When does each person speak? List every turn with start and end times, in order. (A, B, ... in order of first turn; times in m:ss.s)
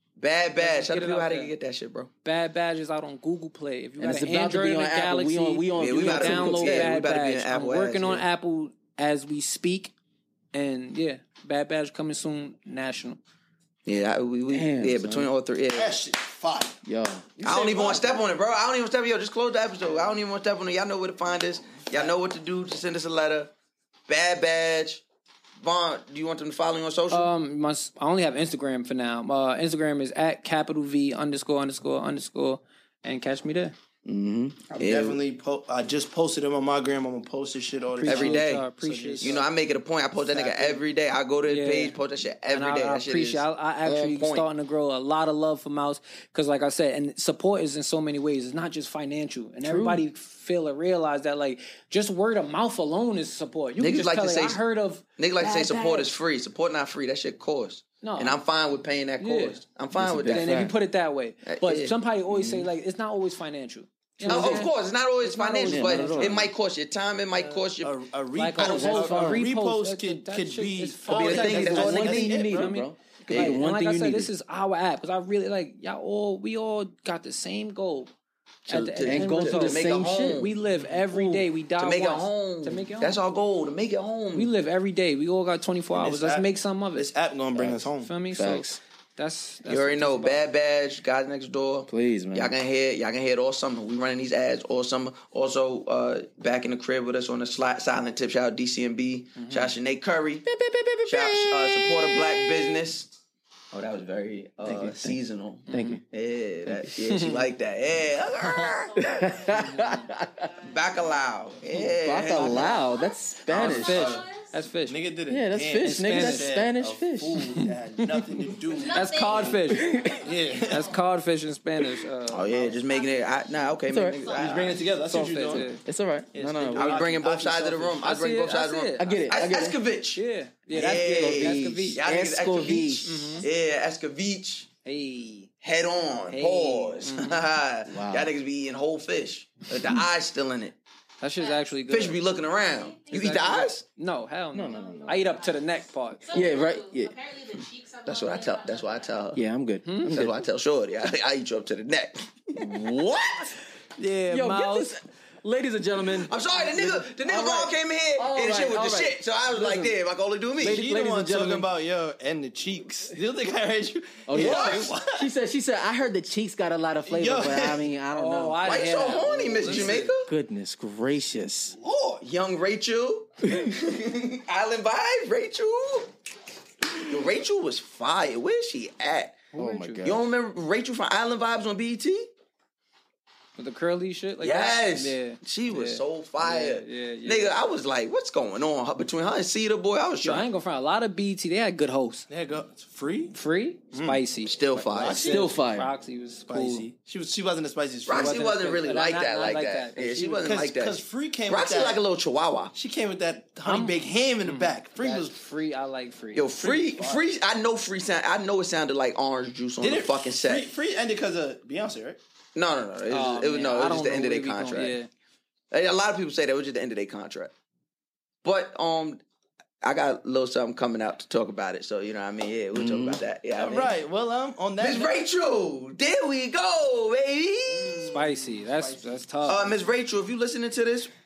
0:00.2-0:02.1 A
0:00.6-0:01.5 B
0:02.2-0:09.9 B
0:04.0-0:07.0 C
0:05.8-0:08.2 A
0:10.5-0:13.2 B
0:13.9-0:16.0 A
0:14.5-0:15.3 C
0:15.7-0:16.8 D
0:16.8-0:17.3 C
0:17.4-0:18.2 D
0:17.4-0:23.5 A
0:24.1-0:25.0 A
0:25.6-0:27.3 A
0:27.1-0:33.8 B
0:34.0-0:34.6 C
0:34.7-0:35.2 A
0:34.8-0:39.5 D
0:38.0-0:39.4 B
0:38.1-0:38.7 A
0:39.2-0:44.5 A
0:40.2-0:40.8 D
0:41.5-0:42.0 B
0:42.5-0:56.1 B
0:49.6-0:50.0 C
0:53.8-0:54.6 A
0:55.2-1:00.6 A
0:58.0-0:58.4 B
0:59.2-0:59.6 B
1:00.0-1:00.7 C
1:00.2-1:06.5 B
1:01.4-1:02.0 A
1:02.3-1:02.7 C
1:04.2-1:04.7 C
1:04.3-1:08.0 A
1:05.7-1:06.5 C
1:07.4-1:12.8 D
1:08.4-1:18.1 B
1:08.6-1:09.5 C
1:11.1-1:12.4 A
1:11.4-1:14.3 C
1:13.3-1:13.6 A
1:18.7-1:24.5 A
1:18.7-1:23.2 B
1:19.1-1:20.5 C
1:24.3-1:27.1 B
1:25.9-1:28.1 D
1:28.0-1:30.4 B
1:28.3-1:28.8 C
1:29.7-1:40.5 A
1:31.9-1:32.6 C
1:39.4-1:39.7 B
1:40.4-1:42.8 C
1:41.1-1:43.1 A
1:43.7-1:49.2 A
1:44.6-1:45.2 C
1:45.7-1:46.0 B
1:45.7-1:46.0 C
1:47.0-1:47.4 B
1:48.5-1:51.6 E
1:49.0-1:50.5 C
1:50.6-1:52.9 A
1:51.7-1:54.2 C
1:52.4-1:52.7 B
1:52.4-1:54.6 E
1:53.5-1:54.2 A
1:53.5-1:55.0 B
1:54.9-1:59.6 D
1:55.3-1:57.4 C
1:55.8-1:56.5 B
1:57.6-1:58.2 B
1:58.7-2:01.0 E
1:58.9-1:59.9 B
1:59.7-2:00.2 C
2:00.2-2:00.9 D
2:00.7-2:02.8 B
2:02.3-2:04.8 A
2:02.7-2:04.8 E
2:03.9-2:04.4 C
2:04.4-2:05.8 D
2:05.1-2:05.8 B
2:05.6-2:07.0 C
2:06.3-2:08.0 D
2:06.8-2:10.2 A
2:08.0-2:09.2 B
2:09.0-2:09.8 C
2:10.2-2:12.0 B
2:10.7-2:13.4 C
2:10.7-2:14.7 A
2:13.1-2:13.5 B
2:14.8-2:15.5 B
2:15.6-2:20.8 A
2:16.3-2:17.4 B
2:17.9-2:18.3 C
2:21.2-2:22.2 B
2:21.4-2:21.7 E
2:21.9-2:23.8 A
2:22.4-2:23.6 E
2:23.1-2:26.3 B
2:24.5-2:25.4 C
2:24.6-2:29.3 E
2:26.3-2:27.2 C
2:28.1-2:29.4 A
2:29.4-2:30.4 C
2:29.8-2:30.2 B
2:30.1-2:33.0 A
2:32.6-2:33.5 C
2:34.0-2:34.9 B
2:34.3-2:40.0 C
2:36.2-2:40.9 A
2:40.6-2:41.6 C
2:40.6-2:45.3 D
2:44.3-2:51.8 C
2:44.4-2:44.9 A
2:47.1-2:47.9 D
2:48.1-2:50.1 B
2:48.6-2:50.3 A
2:51.8-2:52.2 D
2:52.2-2:56.1 A
2:57.0-2:59.4 A
2:59.5-3:00.0 B
2:59.6-3:00.3 C
3:00.0-3:02.3 A
3:03.6-3:07.6 B
3:04.4-3:10.5 A
3:10.2-3:12.3 B
3:12.3-3:13.3 D
3:13.3-3:16.9 B
3:13.9-3:14.2 D
3:14.5-3:15.3 A
3:14.9-3:15.5 D
3:15.1-3:15.9 C
3:16.5-3:18.4 D
3:18.1-3:22.7 A
3:18.1-3:20.5 B
3:20.4-3:22.0 D
3:22.7-3:25.4 D
3:23.6-3:26.5 B
3:26.4-3:30.7 A
3:26.6-3:27.2 D
3:29.8-3:32.2 D
3:32.6-3:35.0 A
3:33.1-3:35.1 B
3:35.7-3:37.5 A
3:38.4-3:39.2 A
3:39.8-3:44.0 A
3:42.7-3:43.2 C
3:43.6-3:45.1 D
3:44.8-3:48.1 A
3:47.7-3:49.8 D
3:48.1-3:49.6 B
3:49.5-3:51.1 A